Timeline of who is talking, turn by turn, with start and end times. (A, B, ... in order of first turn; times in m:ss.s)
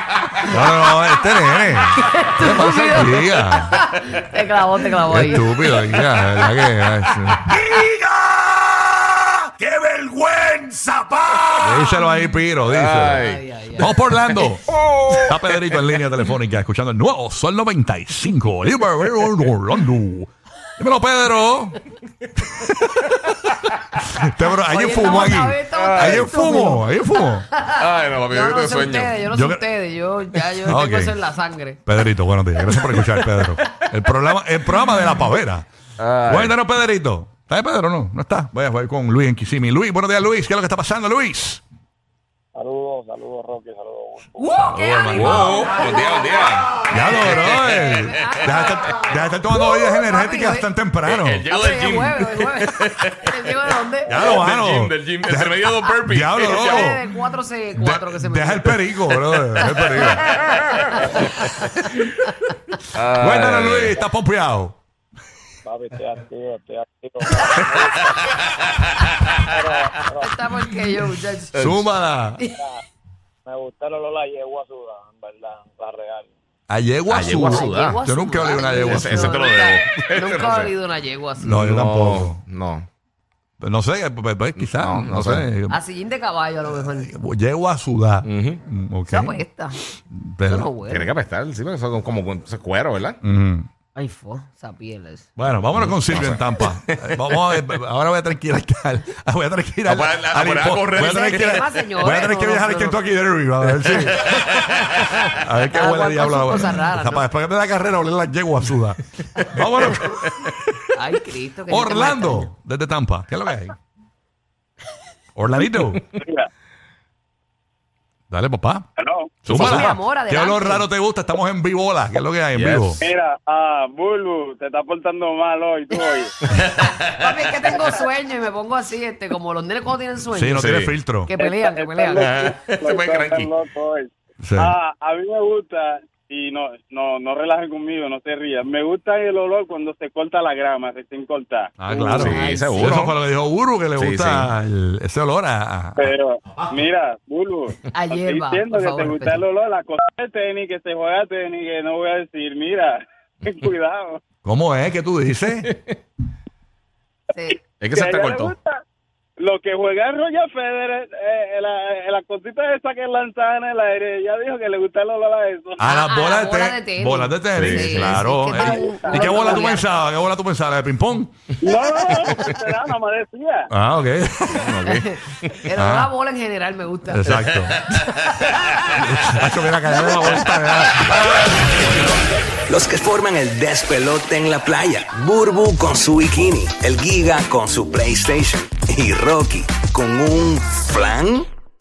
0:00.4-0:03.8 A
0:01.2-0:06.9 B
0:05.1-0:14.6 A
0:11.6-0:12.2 B
0:12.7-0:16.0 C
0:13.1-0:13.9 B
0:15.2-0:21.8 A
0:22.4-0:23.2 A
0:24.0-0:27.4 A
0:24.7-0:31.8 B
0:25.8-0:26.3 C
0:27.8-0:29.2 C
0:29.3-0:29.6 A
0:30.7-0:31.2 A
0:31.8-0:35.7 A
0:32.6-0:33.7 C
0:36.0-0:36.6 C
0:36.2-0:41.6 A
0:42.6-0:44.4 D
0:44.4-0:50.7 B
0:44.6-0:45.8 A
0:45.1-0:49.0 C
0:46.8-0:51.4 A
0:51.0-0:53.5 C
0:51.5-0:54.4 B
0:54.1-0:57.0 A
0:54.1-0:57.0 C
0:56.4-0:58.9 B
0:57.8-1:00.2 A
0:59.5-1:01.0 C
0:59.6-1:02.0 B
1:02.9-1:04.0 C
1:03.1-1:04.8 A
1:05.6-1:07.6 D
1:10.2-1:11.7 B
1:11.5-1:11.8 C
1:11.6-1:12.4 A
1:12.4-1:12.6 B
1:16.7-1:19.4 A
1:17.1-1:18.0 C
1:17.4-1:21.6 B
1:18.7-1:20.7 C
1:21.4-1:22.4 A
1:21.5-1:22.9 C
1:23.6-1:25.8 A
1:24.6-1:25.5 C
1:25.7-1:27.1 B
1:27.0-1:29.4 A
1:28.2-1:28.6 C
1:29.1-1:29.8 B
1:30.1-1:30.7 A
1:30.5-1:31.1 B
1:30.9-1:33.2 C
1:33.2-1:33.7 A
1:33.9-1:35.3 B
1:35.4-1:50.9 A
1:35.7-1:37.6 C
1:39.8-1:42.1 C
1:40.9-1:43.0 B
1:44.2-1:45.2 C
1:44.9-1:47.3 B
1:50.9-1:52.5 B
1:51.7-1:53.8 A
1:55.4-1:56.0 A
1:56.2-1:56.5 E
1:58.3-1:58.8 A
1:59.0-1:59.3 E
1:59.4-2:03.0 A
1:59.4-1:59.9 C
1:59.5-2:00.9 B
2:02.5-2:03.0 C
2:03.0-2:06.3 E
2:06.5-2:07.5 C
2:07.1-2:12.3 B
2:10.3-2:11.3 A
2:10.6-2:10.9 C
2:11.4-2:21.7 E
2:12.1-2:13.5 C
2:14.4-2:14.8 A
2:21.8-2:26.1 A
2:21.9-2:23.0 B
2:22.2-2:23.2 C
2:24.0-2:24.5 C
2:26.0-2:34.2 E
2:27.9-2:29.4 B
2:34.4-2:35.7 A
2:37.8-2:38.5 C
2:37.9-2:38.8 E
2:39.4-2:45.8 E
2:45.8-2:51.3 A
2:45.8-2:49.8 B
2:47.5-2:48.3 C
2:48.4-2:49.6 E
2:51.6-2:53.7 E
2:53.7-2:54.7 A
2:54.6-2:55.6 C
2:54.8-2:57.5 B
2:55.8-2:56.1 A
2:57.1-2:57.9 A
2:57.9-2:58.4 C
2:58.9-3:01.5 A
3:02.7-3:11.5 F